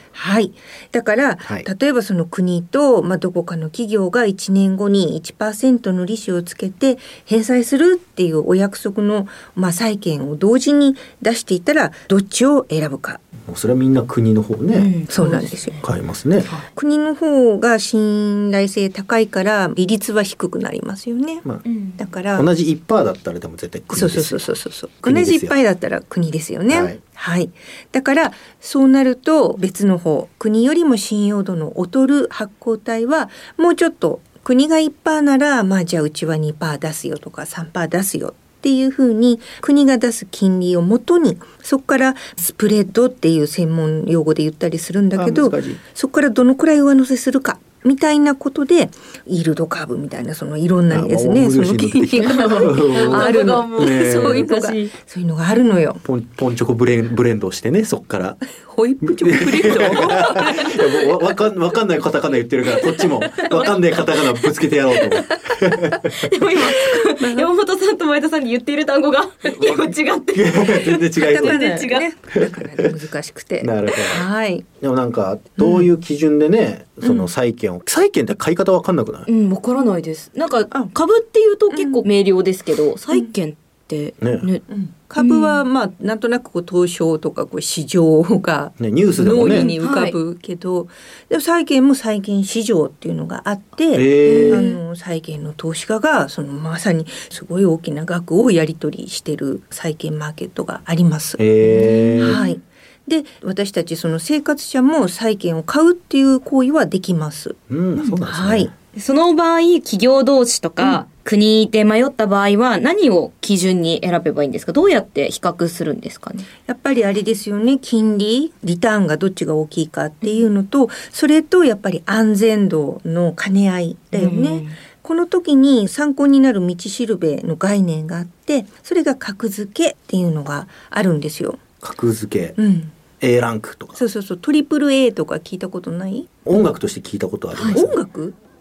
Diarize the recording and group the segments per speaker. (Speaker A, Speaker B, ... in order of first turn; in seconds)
Speaker A: 0.1-13.2, 15.1-15.8, 16.8-21.4, 22.0-22.5, 23.9-56.0, 58.6-60.9, 63.2-63.6, 65.3-65.8, 67.2-67.5, 71.2-74.7, 75.6-75.9, 77.0-77.3, 81.7-82.1, 84.7-101.4, 102.2-108.7, 116.7-131.6, 132.6-132.9, 133.9-136.3, 137.7-138.4
Speaker B: 13.5-14.9, 15.8-16.5, 22.3-24.4, 25.0-25.6, 26.7-27.0, 45.2-45.8, 50.9-54.5, 56.0-58.4, 59.0-66.1, 69.6-71.6, 72.4-72.9, 73.6-74.2, 74.8-79.3, 88.8-89.7, 93.9-94.6, 101.4-102.4, 107.7-108.7, 131.8-132.6, 133.2-134.0, 136.4-138.0
Speaker C: 14.7-15.8, 21.7-22.0, 52.2-54.9, 63.5-63.9, 66.2-72.1, 79.3-84.7, 85.2-85.6, 89.4-90.2, 94.2-94.8, 101.7-102.6, 109.0-116.5, 124.1-124.8, 137.6-137.8